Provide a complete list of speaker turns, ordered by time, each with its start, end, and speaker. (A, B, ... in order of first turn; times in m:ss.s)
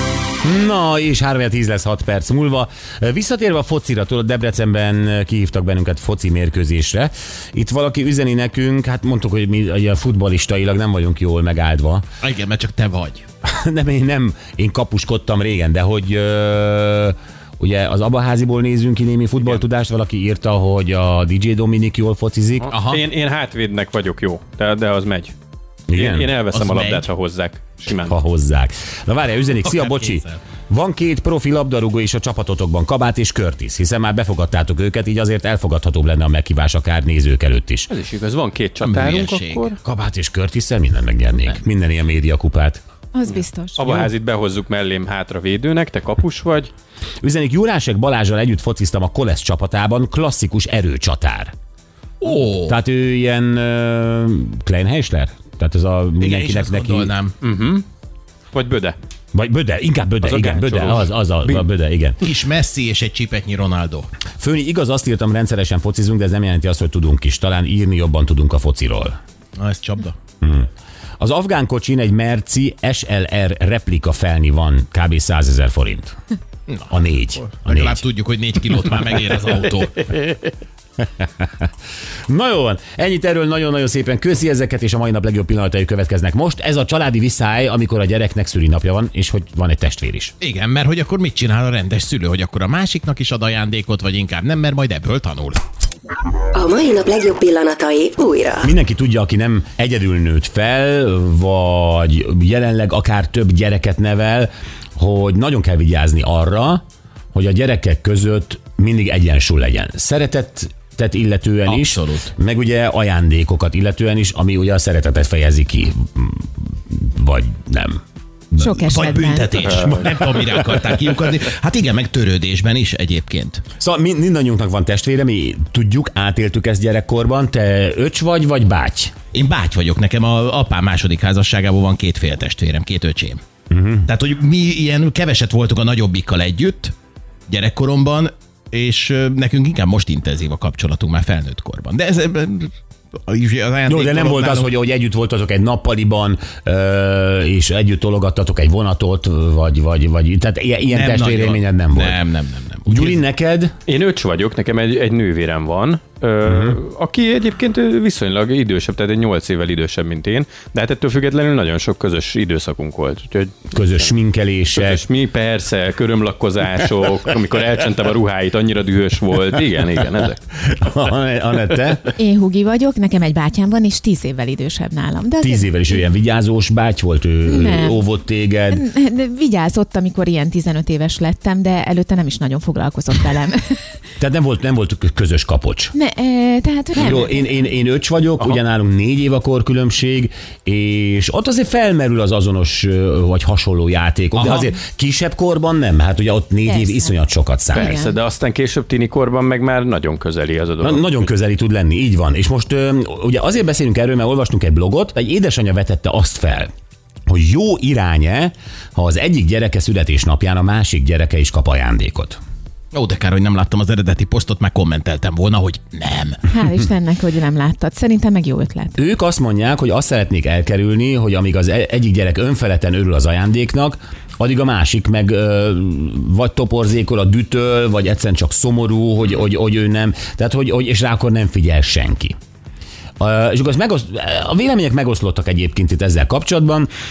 0:00.4-0:12.0 A
0:12.2-0:13.2 B
0:13.4-0:22.7 A
0:22.7-0:25.3 C
0:22.7-0:23.0 B
0:25.9-0:26.4 A
0:25.9-0:28.2 C
0:26.5-0:27.1 B
0:28.0-0:37.9 A
0:29.6-0:30.4 B
0:37.9-0:39.8 C
0:38.8-0:39.7 B
0:39.8-0:42.8 A
0:43.1-0:43.8 D
0:43.8-0:46.7 C
0:47.2-0:51.5 A
0:52.2-0:52.8 B
0:52.6-0:57.1 A
0:56.2-0:57.3 B
0:57.4-0:57.8 C
0:58.5-0:59.0 C
0:59.3-1:02.2 A
1:00.2-1:01.6 C
1:02.2-1:04.1 B
1:04.4-1:09.2 A
1:09.6-1:10.1 B
1:10.4-1:10.7 A
1:11.2-1:16.1 A
1:16.7-1:20.1 B
1:16.9-1:18.0 A
1:20.1-1:20.5 C
1:21.0-1:21.5 A
1:22.3-1:30.3 A
1:30.4-1:35.6 B
1:36.5-1:38.6 E
1:38.6-1:46.8 A
1:47.3-1:58.0 A
1:51.7-1:52.3 B
1:58.5-1:58.9 A
1:58.6-1:59.7 D
1:58.9-2:03.6 B
1:59.6-2:00.0 C
2:03.8-2:09.1 A
2:09.3-2:13.4 B
2:13.7-2:14.1 A
2:14.0-2:16.9 B
2:17.5-2:22.7 B
2:23.2-2:24.7 B
2:23.8-2:32.2 A
2:30.9-2:33.2 B
2:32.8-2:33.7 A
2:33.9-2:44.1 C
2:36.4-2:36.8 A
2:43.7-2:45.0 A
2:44.8-2:50.4 C
2:50.5-2:52.1 A
2:52.2-2:56.0 D
2:55.4-2:58.9 A
2:57.4-2:58.0 D
2:58.7-3:03.8 D
3:04.2-3:05.9 A
3:05.9-3:07.6 D
3:06.9-3:18.0 A
3:14.3-3:14.7 B
3:16.6-3:17.1 D
3:17.7-3:21.2 C
3:17.7-3:18.1 D
3:20.8-3:26.7 A
3:27.3-3:32.4 A
3:32.9-3:36.4 B
3:36.5-3:39.0 D
3:39.0-3:52.3 A
3:53.2-3:56.9 A